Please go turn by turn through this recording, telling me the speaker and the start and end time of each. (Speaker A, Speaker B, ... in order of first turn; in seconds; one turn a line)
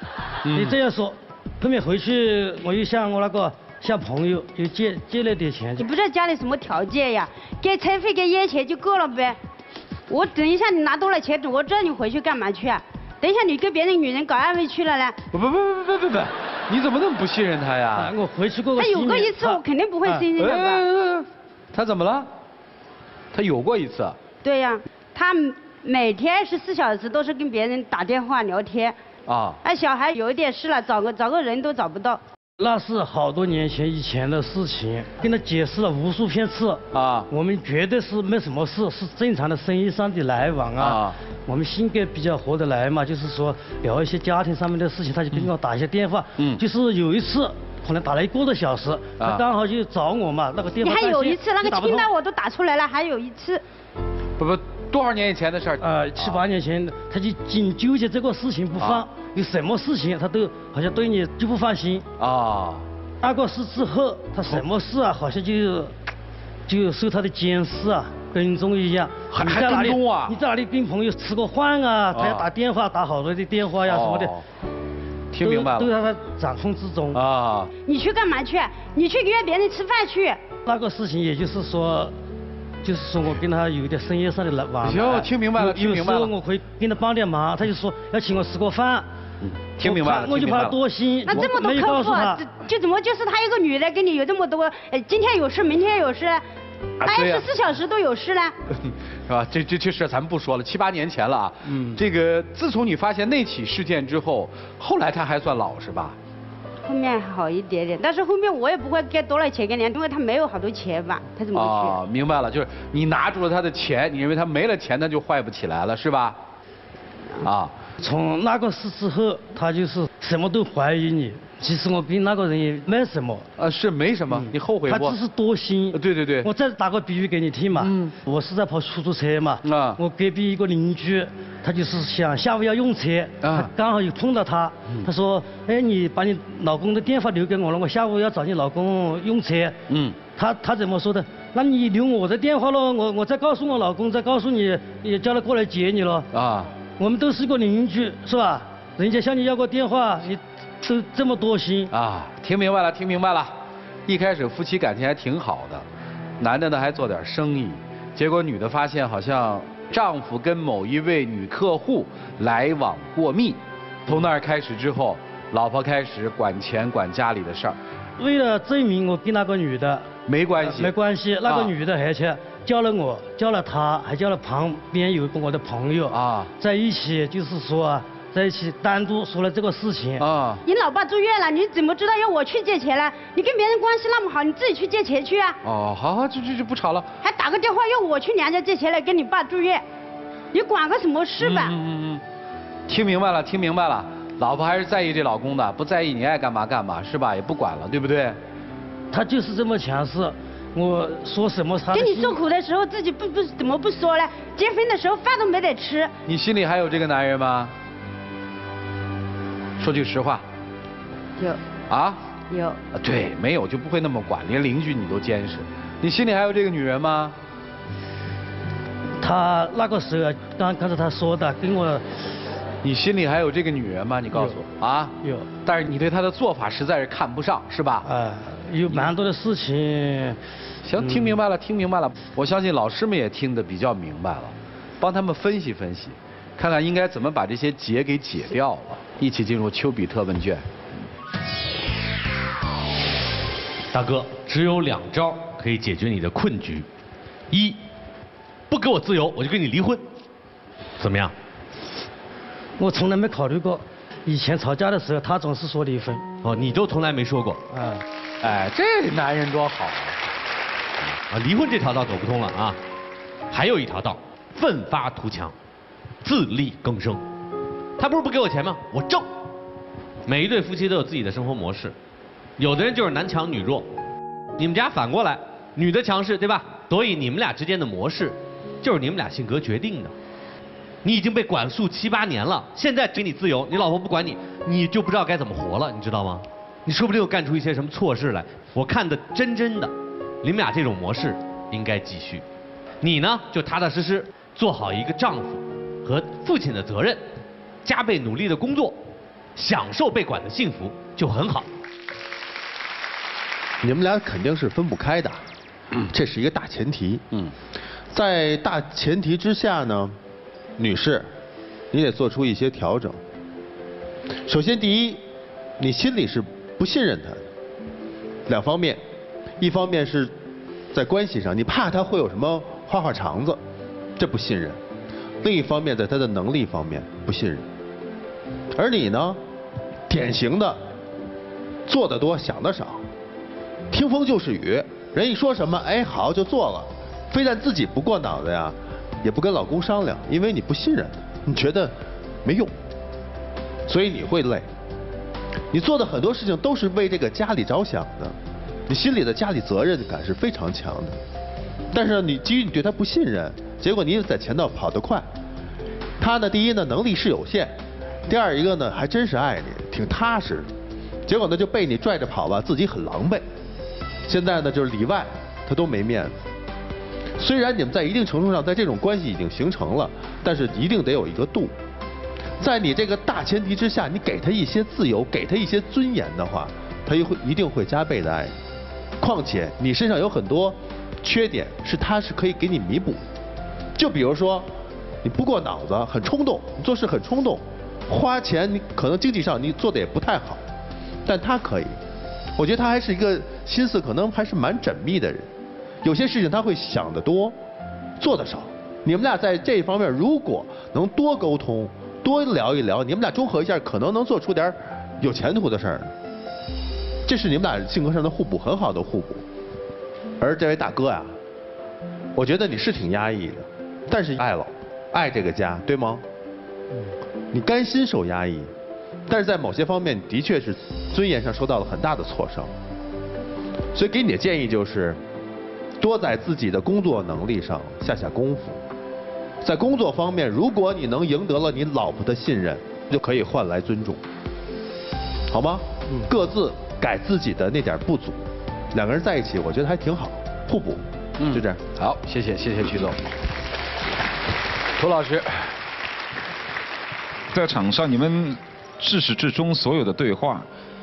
Speaker A: 0.4-0.8
Speaker B: 0.5-5.8
Speaker C: 5.8-9.4
Speaker C: 10.1-15.2
Speaker A: 15.3-18.1
Speaker B: 17.9-20.3
Speaker C: 18.8-20.8
Speaker A: 20.4-22.3
Speaker A: 23.3-24.2
Speaker C: 24.4-28.9
Speaker A: 29.2-29.6
Speaker C: 29.6-32.2
Speaker B: 32.6-52.1
Speaker A: 36.9-37.3
Speaker A: 40.8-41.2
Speaker A: 46.4-46.6
Speaker C: 50.8-53.6
Speaker A: 54.4-56.4
Speaker B: 55.8-62.0
Speaker A: 58.8-59.0
Speaker A: 62.2-62.9
Speaker B: 63.2-65.9
Speaker B: 66.7-74.3
Speaker A: 69.3-70.4
Speaker A: 72.1-72.5
Speaker A: 73.8-74.4
Speaker A: 75.3-75.9
Speaker B: 75.4-77.2
Speaker A: 77.1-77.7
Speaker C: 77.8-80.4
Speaker B: 80.7-82.1
Speaker B: 82.8-89.1
Speaker A: 84.8-86.3
Speaker A: 89.4-90.8
Speaker B: 89.8-92.5
Speaker C: 91.2-96.4
Speaker A: 97.0-97.5
Speaker C: 97.0-98.5
Speaker A: 98.8-106.2
Speaker B: 101.7-102.0
Speaker C: 106.8-112.0
Speaker A: 111.5-116.4
Speaker A: 117.4-117.8
Speaker B: 118.0-123.5
Speaker A: 123.6-125.2
Speaker B: 124.3-139.8
Speaker A: 125.9-126.5
Speaker A: 127.8-128.1
Speaker A: 129.6-130.0
Speaker A: 133.4-133.7
Speaker A: 139.9-140.2
Speaker B: 140.3-146.3
Speaker A: 146.3-146.7
Speaker B: 147.0-151.9
Speaker A: 151.9-153.6
Speaker A: 154.1-155.9
Speaker A: 156.4-167.8
Speaker B: 168.2-170.1
Speaker A: 170.3-171.7
Speaker B: 170.6-180.2
Speaker A: 176.1-176.5
Speaker A: 180.2-180.6
Speaker C: 180.6-185.6
Speaker A: 185.6-187.1
Speaker C: 187.2-189.8
Speaker C: 190.5-191.7
Speaker A: 191.4-192.2
Speaker A: 192.9-198.4
Speaker B: 199.1-202.4
Speaker C: 201.9-206.1
Speaker A: 206.2-207.7
Speaker A: 209.8-210.4
Speaker A: 211.9-212.2
Speaker C: 212.5-212.8
Speaker A: 212.9-217.3
Speaker B: 219.2-222.0
Speaker A: 222.8-228.1
Speaker B: 225.2-225.5
Speaker B: 228.0-230.4
Speaker A: 228.8-229.1
Speaker A: 230.8-240.7
Speaker B: 231.0-231.4
Speaker D: 243.9-246.9
Speaker D: 247.5-247.8
Speaker D: 248.7-250.1
Speaker D: 251.0-251.3
Speaker B: 252.8-256.2
Speaker D: 256.4-257.6
Speaker B: 257.7-258.0
Speaker A: 258.4-260.2
Speaker D: 261.3-262.8
Speaker D: 263.5-265.6
Speaker D: 266.2-267.2
Speaker D: 268.0-269.3
Speaker D: 270.2-271.9
Speaker D: 272.6-273.9
Speaker D: 274.6-280.1
Speaker D: 281.0-292.4
Speaker D: 293.0-297.2
Speaker D: 297.8-299.0
Speaker D: 299.5-301.7
Speaker E: 303.8-305.4
Speaker E: 306.1-307.2
Speaker E: 308.1-310.2
Speaker E: 310.8-311.3
Speaker E: 311.9-313.2
Speaker E: 314.4-315.2
Speaker E: 315.8-317.5
Speaker E: 318.5-319.0
Speaker E: 319.6-320.3
Speaker E: 320.9-323.6
Speaker E: 324.2-324.8
Speaker E: 325.4-327.6
Speaker E: 328.7-329.4
Speaker E: 330.1-330.8
Speaker E: 331.9-333.0
Speaker E: 333.9-342.7
Speaker E: 343.9-344.7
Speaker E: 345.7-351.2
Speaker E: 351.9-355.2
Speaker E: 356.2-357.8
Speaker E: 358.3-360.7
Speaker E: 361.2-363.4
Speaker E: 364.2-366.3
Speaker E: 367.4-371.7
Speaker E: 372.6-378.6
Speaker E: 379.2-383.2
Speaker E: 383.9-384.7
Speaker E: 385.2-390.6
Speaker E: 391.2-392.0
Speaker E: 392.6-395.5
Speaker E: 396.0-397.6
Speaker E: 398.2-406.1
Speaker E: 407.2-409.4
Speaker E: 410.4-411.3
Speaker E: 412.3-416.2
Speaker E: 417.5-418.7
Speaker E: 419.3-422.7
Speaker E: 423.9-425.2
Speaker E: 426.0-428.8
Speaker E: 429.6-434.2
Speaker E: 435.5-441.8
Speaker A: 441.4-443.2
Speaker A: 445.0-445.7
Speaker F: 447.5-450.7